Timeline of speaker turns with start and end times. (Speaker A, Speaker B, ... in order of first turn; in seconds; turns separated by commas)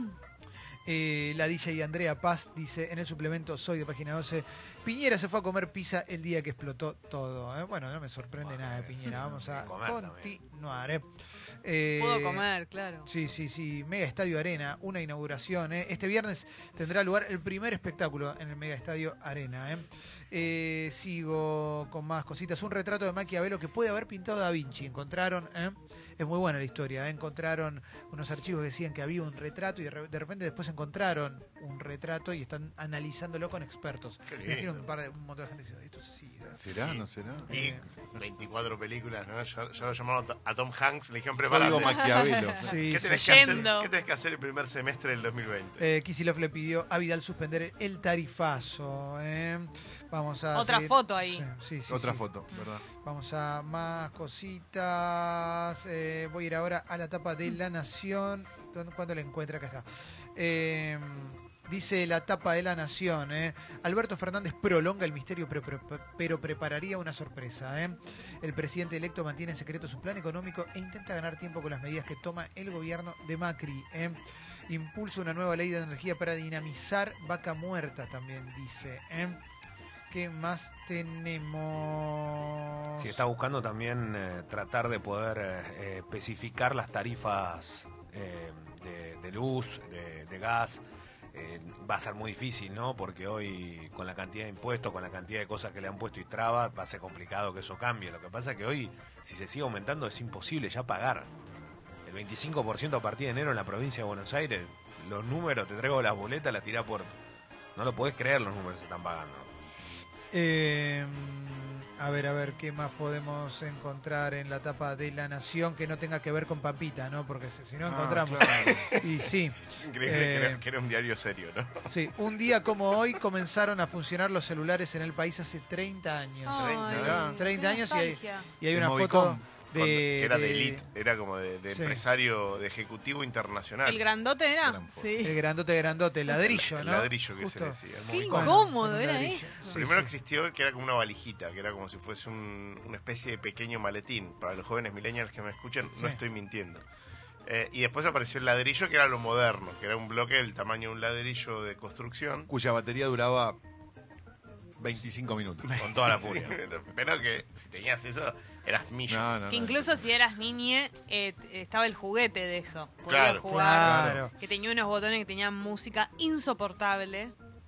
Speaker A: 0.8-11.1, Speaker B: 8.4-10.3, Speaker A: 11.6-12.4, Speaker C: 12.0-13.1, Speaker A: 13.1-36.6, Speaker D: 34.3-34.8, Speaker E: 36.6-37.5, Speaker D: 36.7-42.2, Speaker A: 37.5-37.8, Speaker E: 41.5-42.8, Speaker C: 41.8-43.9, Speaker A: 42.6-43.7, Speaker D: 42.8-45.8, Speaker A: 45.8-52.2, Speaker C: 50.5-51.5, Speaker E: 51.9-52.8, Speaker A: 53.0-79.4, Speaker A: 80.1-83.2, Speaker B: 83.0-90.8, Speaker B: 91.3-101.3, Speaker B: 102.0-107.1, Speaker B: 107.8-109.5, Speaker A: 110.3-120.6, Speaker E: 117.8-118.9, Speaker D: 118.4-121.9, Speaker A: 121.9-130.8, Speaker C: 126.5-128.4, Speaker E: 126.6-127.4, Speaker D: 126.8-127.2, Speaker E: 128.7-129.5, Speaker D: 129.7-134.1, Speaker A: 131.7-132.0, Speaker C: 133.8-135.4, Speaker E: 134.6-135.2, Speaker A: 135.2-140.1, Speaker D: 136.4-138.6, Speaker C: 138.0-139.8, Speaker D: 139.7-146.8, Speaker D: 147.4-152.5, Speaker E: 152.5-153.6, Speaker E: 154.8-156.5, Speaker D: 155.6-159.4, Speaker E: 159.1-160.0, Speaker C: 159.5-167.3, Speaker D: 163.1-163.5, Speaker A: 163.5-164.3, Speaker E: 163.8-164.2